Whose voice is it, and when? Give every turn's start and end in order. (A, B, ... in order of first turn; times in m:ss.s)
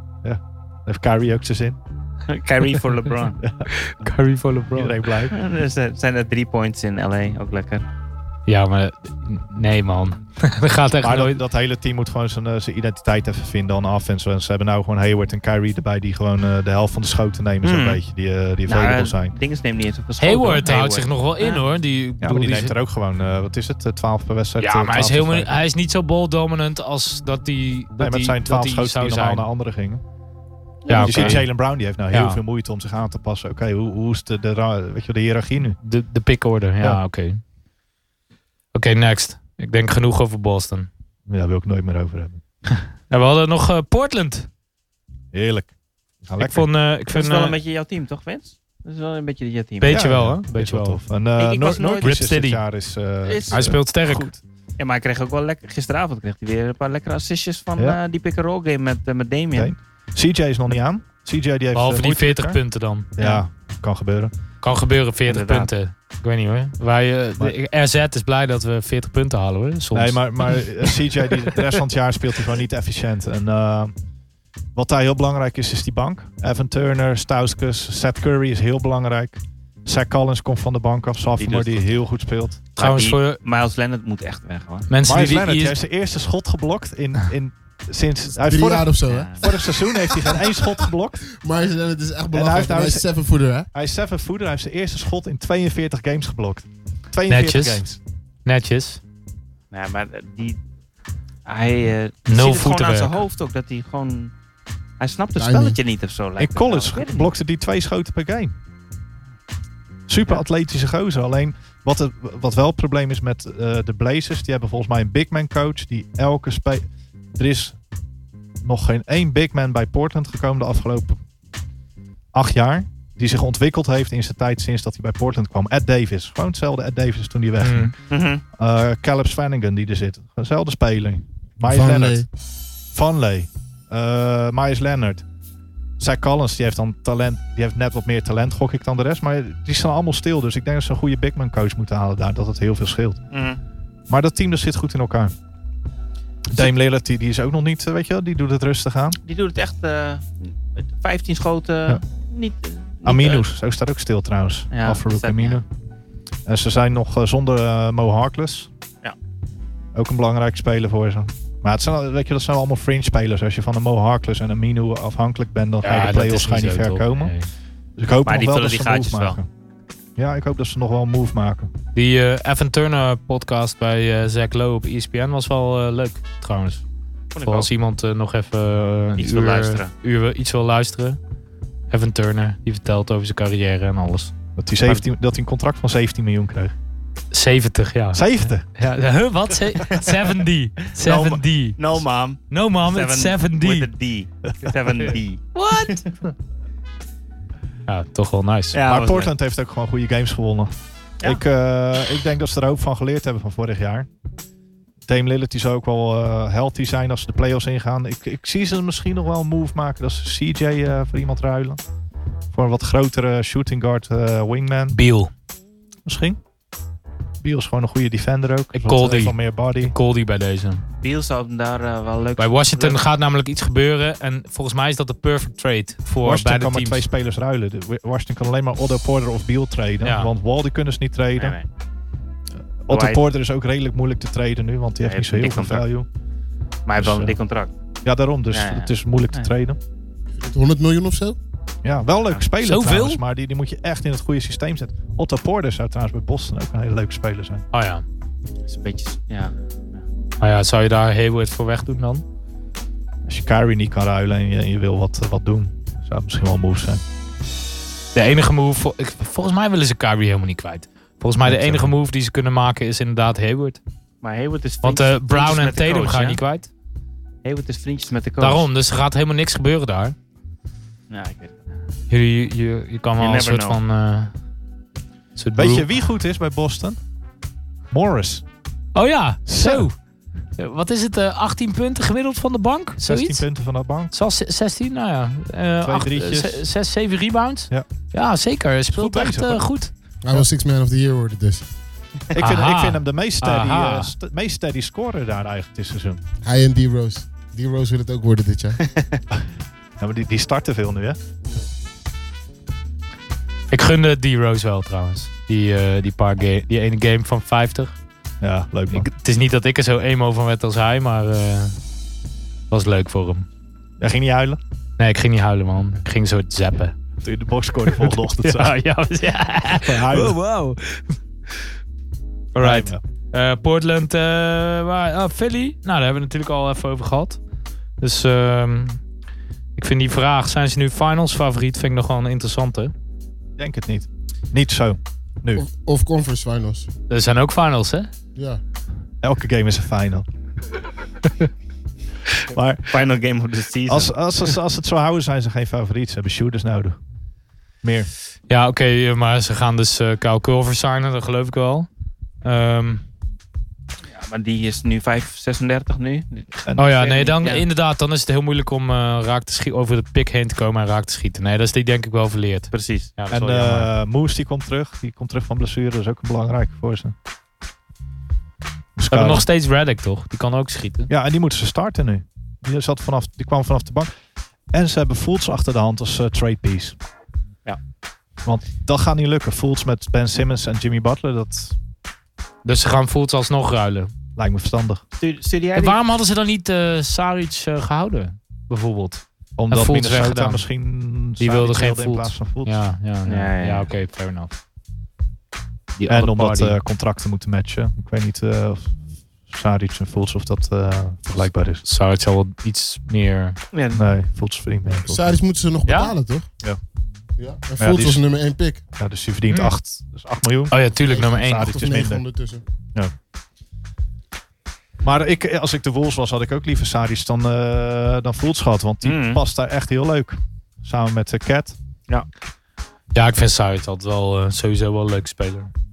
0:00.2-0:01.8 A
0:02.3-0:03.4 B
0:03.4-0:03.7 A
0:03.7-0:05.0 C
0:04.7-0:05.4 A
0:05.3-0:07.9 B
0:08.5-0:11.4 C
0:11.0-0:19.4 A
0:17.6-0:18.0 B
0:18.7-0:21.6 B
0:20.2-0:22.8 C
0:22.2-0:25.6 A
0:24.6-0:29.5 C
0:28.0-0:30.0 A
0:30.8-0:31.4 B
0:30.9-0:31.5 C
0:31.0-0:35.8 A
0:32.1-0:32.4 C
0:35.8-0:37.4 C
0:38.7-0:40.9 C
0:41.3-0:42.4 A
0:43.1-0:44.5 C
0:45.3-0:46.7 A
0:46.4-0:47.6 C
0:47.1-0:50.0 B
0:49.8-0:51.0 C
0:49.9-0:54.4 A
0:51.4-0:52.2 B
0:52.0-0:52.6 C
0:53.2-0:53.6 B
0:53.5-0:54.3 C
0:54.8-0:59.7 B
0:59.5-1:02.6 A
1:01.7-1:03.1 C
1:03.2-1:04.3 A
1:03.2-1:03.4 B
1:04.6-1:11.3 C
1:05.3-1:05.7 B
1:09.9-1:13.9 A
1:14.8-1:22.6 A
1:21.4-1:22.0 B
1:22.8-1:24.9 B
1:22.8-1:23.4 C
1:24.9-1:25.8 C
1:25.0-1:31.3 A
1:28.4-1:30.7 D
1:29.1-1:29.6 B
1:31.4-1:33.7 D
1:32.3-1:33.1 A
1:33.7-1:38.0 A
1:37.3-1:37.8 C
1:38.4-1:39.0 C
1:39.7-1:40.6 B
1:41.5-1:44.3 B
1:42.3-1:43.2 C
1:45.0-1:47.3 B
1:45.4-1:45.8 D
1:46.4-1:48.6 A
1:50.1-1:56.8 A
1:57.4-1:57.8 A
1:58.6-2:01.2 A
2:02.3-2:08.0 A
2:07.6-2:07.9 C
2:08.1-2:08.4 B
2:08.6-2:12.3 A
2:11.7-2:12.3 D
2:12.9-2:15.2 A
2:16.0-2:23.2 A
2:23.3-2:23.6 B
2:24.1-2:25.3 A
2:26.5-2:29.2 A
2:29.2-2:33.5 B
2:33.0-2:35.6 A
2:34.7-2:35.6 B
2:36.5-2:38.7 A
2:40.0-2:47.3 A
2:45.8-2:47.5 C
2:48.0-2:49.5 A
2:48.2-2:49.4 B
2:50.2-2:51.7 A
2:52.0-2:56.8 C
2:57.3-2:57.7 B
2:57.4-3:01.2 C
2:59.2-2:59.9 B
3:01.9-3:04.3 C
3:04.6-3:06.8 A
3:07.3-3:11.8 C
3:08.1-3:08.7 A
3:11.0-3:16.1 B
3:12.5-3:13.9 C
3:15.6-3:16.0 C
3:17.9-3:18.8 C
3:18.7-3:19.3 B
3:18.9-3:24.1 A
3:25.1-3:31.8 A
3:32.5-3:35.0 A
3:34.9-3:35.3 C
3:36.1-3:36.4 A
3:37.4-3:39.9 A
3:38.7-3:40.8 C
3:41.0-3:43.0 B
3:42.4-3:47.1 C
3:46.2-3:51.6 A
3:50.0-3:50.3 C
3:51.4-3:51.6 B
3:52.8-3:56.1 A
3:52.9-3:53.2 B
3:55.0-3:55.9 B
3:56.9-3:57.7 B
3:57.0-3:57.4 A
3:58.0-3:59.8 A
3:58.5-3:59.5 B
4:00.4-4:01.4 D
4:01.8-4:07.6 A
4:02.6-4:03.2 C
4:07.7-4:08.0 C
4:08.7-4:10.0 B
4:10.4-4:12.2 C
4:13.3-4:17.0 A
4:18.1-4:23.8 C
4:21.4-4:21.9 A
4:24.2-4:26.4 B
4:24.8-4:26.7 C
4:27.4-4:28.7 B
4:28.4-4:30.2 C
4:31.1-4:31.6 B
4:32.1-4:34.3 C
4:33.2-4:33.8 B
4:35.4-4:35.9 C
4:35.5-4:37.0 A
4:37.9-4:38.4 A
4:39.0-4:40.0 C
4:39.5-4:39.9 A
4:40.6-4:43.4 C
4:43.0-4:44.1 A
4:44.1-4:49.9 C
4:45.8-4:46.6 A
4:48.9-4:49.6 A
4:50.2-4:51.6 D
4:52.3-4:56.2 A
4:52.4-4:54.1 C
4:56.4-4:58.8 D
4:58.9-4:59.2 B
5:00.0-5:01.2 A
5:03.7-5:08.0 C
5:08.4-5:09.1 A
5:08.9-5:11.8 C
5:12.7-5:13.5 C
5:14.0-5:14.6 A
5:15.0-5:17.0 C
5:17.2-5:18.8 A
5:17.9-5:21.2 C
5:19.7-5:20.4 A
5:22.6-5:27.4 C
5:22.6-5:23.0 A
5:28.0-5:29.0 C
5:29.8-5:32.9 C
5:33.6-5:35.6 A
5:35.6-5:36.9 D
5:37.1-5:38.1 C
5:38.4-5:38.6 D
5:39.2-5:40.3 A
5:42.5-5:43.0 A
5:42.9-5:44.2 B
5:43.9-5:47.0 A
5:47.8-5:48.1 A
5:48.5-5:51.9 C
5:52.4-5:53.0 C
5:54.1-5:57.6 B
5:56.8-6:03.9 C
6:02.7-6:03.1 B
6:03.3-6:07.2 A
6:09.0-6:09.4 A
6:09.1-6:11.1 C
6:11.1-6:14.1 A
6:14.7-6:17.0 A
6:18.4-6:21.8 A
6:22.6-6:24.1 C
6:24.4-6:25.0 A
6:25.2-6:26.0 B
6:25.8-6:30.6 C
6:29.6-6:32.8 A
6:31.4-6:34.5 C
6:33.3-6:33.9 B
6:36.0-6:36.8 C
6:36.1-6:41.8 A
6:41.8-6:43.6 C
6:43.7-6:44.0 B
6:43.9-6:45.4 A
6:45.1-6:46.5 D
6:45.9-6:46.1 C
6:47.4-6:48.8 D
6:47.8-6:48.2 A
6:49.0-6:50.8 A
6:49.5-6:49.8 C
6:50.7-6:51.9 C
6:51.1-6:52.6 D
6:51.3-6:52.2 A
6:55.0-7:01.8 A
6:59.0-6:59.4 B
7:03.1-7:05.7 C